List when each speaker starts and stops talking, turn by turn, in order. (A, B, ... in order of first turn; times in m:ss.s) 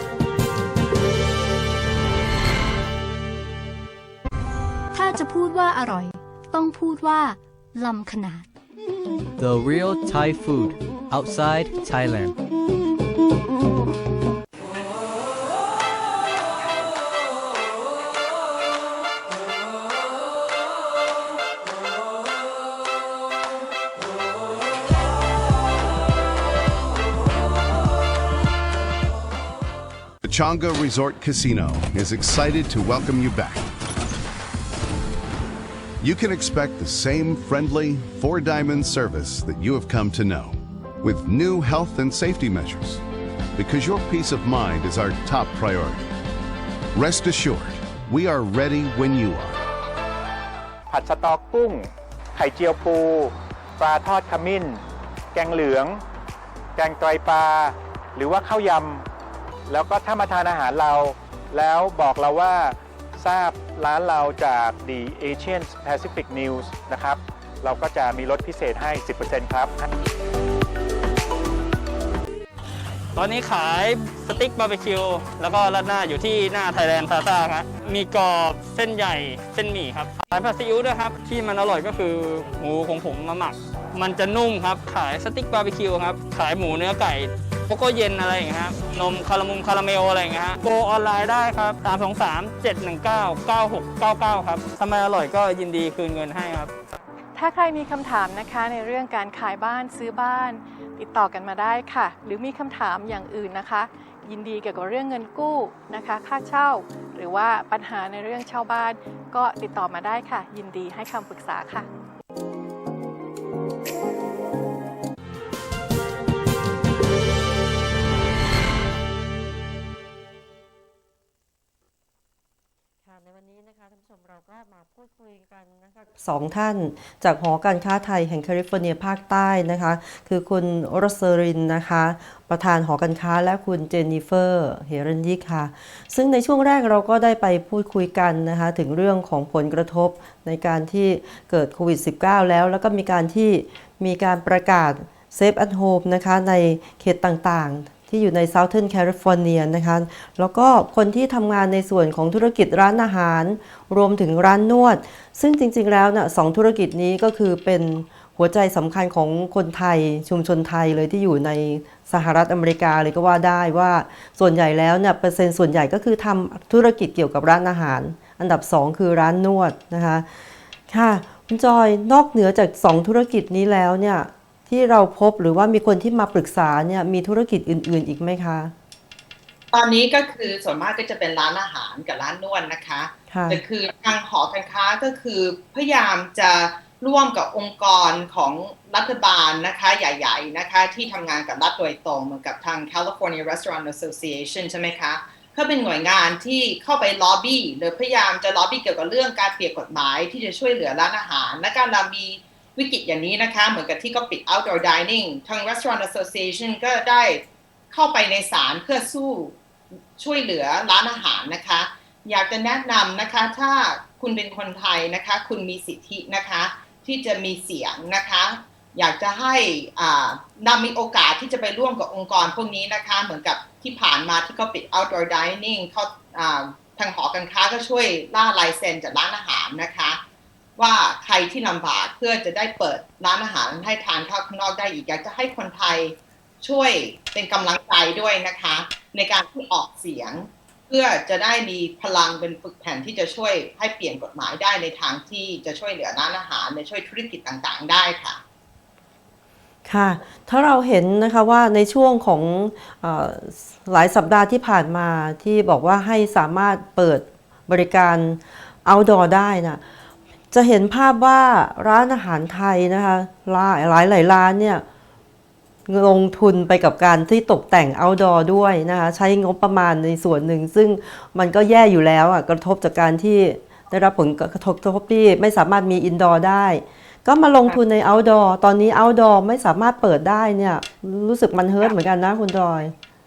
0:04.9-0:08.5 A
0:09.4-0:12.4 B
0:30.2-0:33.7 C
0:36.0-0:43.0 C
0:43.6-0:46.1 C
0:47.0-0:49.6 C
0:50.9-0:54.8 D
0:55.3-0:56.0 D
0:56.8-0:59.1 D
0:59.7-1:09.8 D
1:13.1-1:36.7 E
1:37.4-1:51.9 F
2:03.0-2:50.3 G
2:50.9-2:58.7 G
2:59.7-3:29.6 H
3:03.3-3:03.6 G
3:30.2-3:50.2 H
3:50.8-4:08.4 H
4:09.9-4:19.8 G
4:20.5-4:24.8 G
4:25.9-4:42.9 G